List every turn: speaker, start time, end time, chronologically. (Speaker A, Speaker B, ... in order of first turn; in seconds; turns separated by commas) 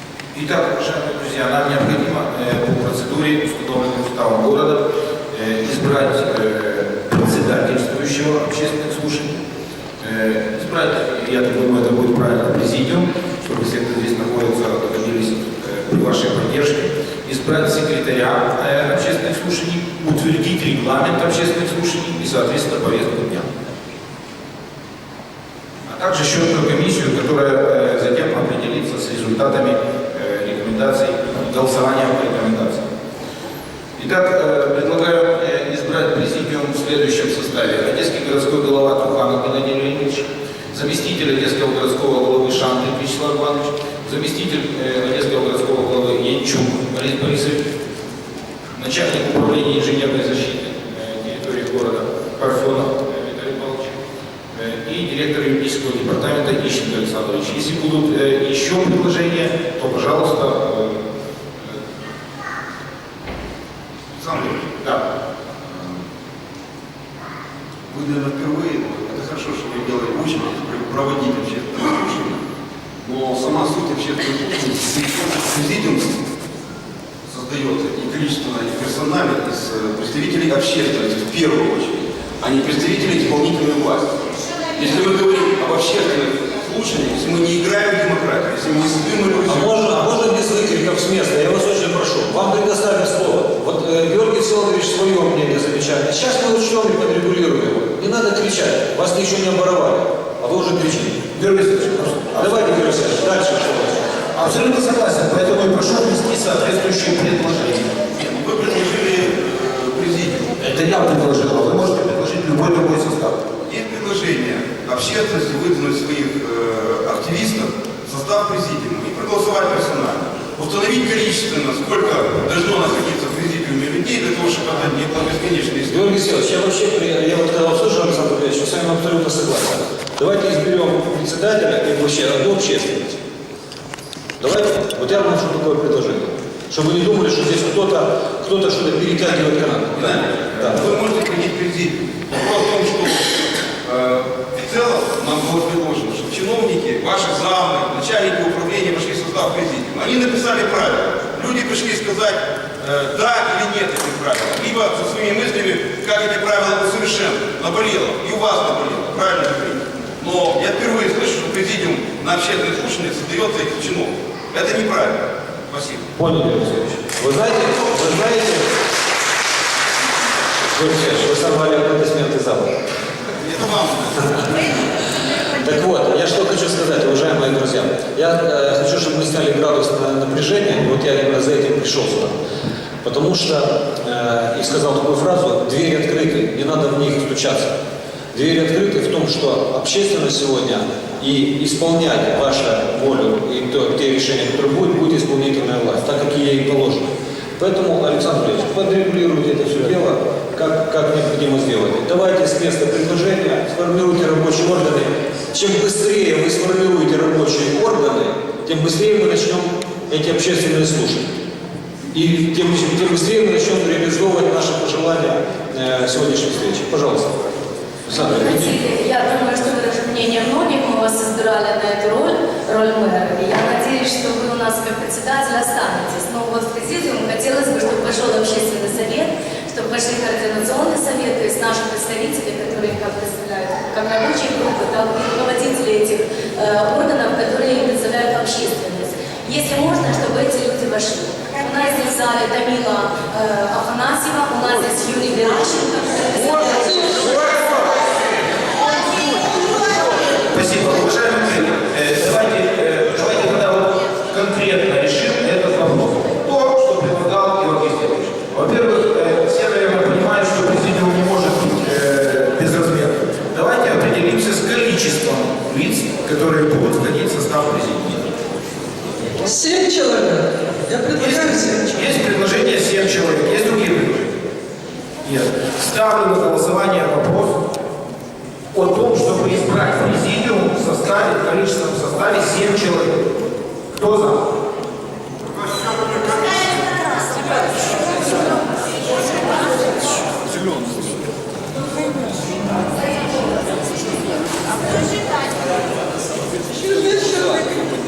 Speaker A: 0.3-9.4, Speaker A: 10.0-23.5, Speaker A: 25.9-32.9, Speaker A: 34.0-47.6, Speaker A: 48.8-54.0, Speaker A: 54.5-61.0, Speaker B: 64.2-64.7, Speaker A: 64.7-65.0, Speaker B: 65.7-66.0, Speaker B: 67.9-72.4, Speaker B: 73.0-76.2, Speaker B: 77.2-89.7, Speaker C: 89.5-101.2, Speaker A: 101.3-102.5, Speaker C: 102.3-104.1, Speaker A: 104.3-108.0, Speaker B: 108.2-110.5, Speaker A: 110.6-113.4, Speaker B: 113.7-126.0, Speaker C: 125.9-133.2, Speaker C: 134.4-140.8, Speaker B: 139.9-166.1, Speaker C: 166.2-168.7, Speaker C: 170.7-172.8, Speaker B: 173.4-174.5, Speaker C: 175.5-182.4, Speaker C: 183.0-187.7, Speaker C: 188.3-211.3, Speaker C: 212.1-217.3, Speaker C: 218.1-218.8, Speaker D: 218.1-247.8, Speaker A: 250.5-268.4, Speaker E: 269.4-272.1, Speaker A: 271.1-274.4, Speaker A: 275.2-277.7, Speaker A: 278.7-283.3, Speaker A: 283.9-284.5, Speaker E: 296.7-297.9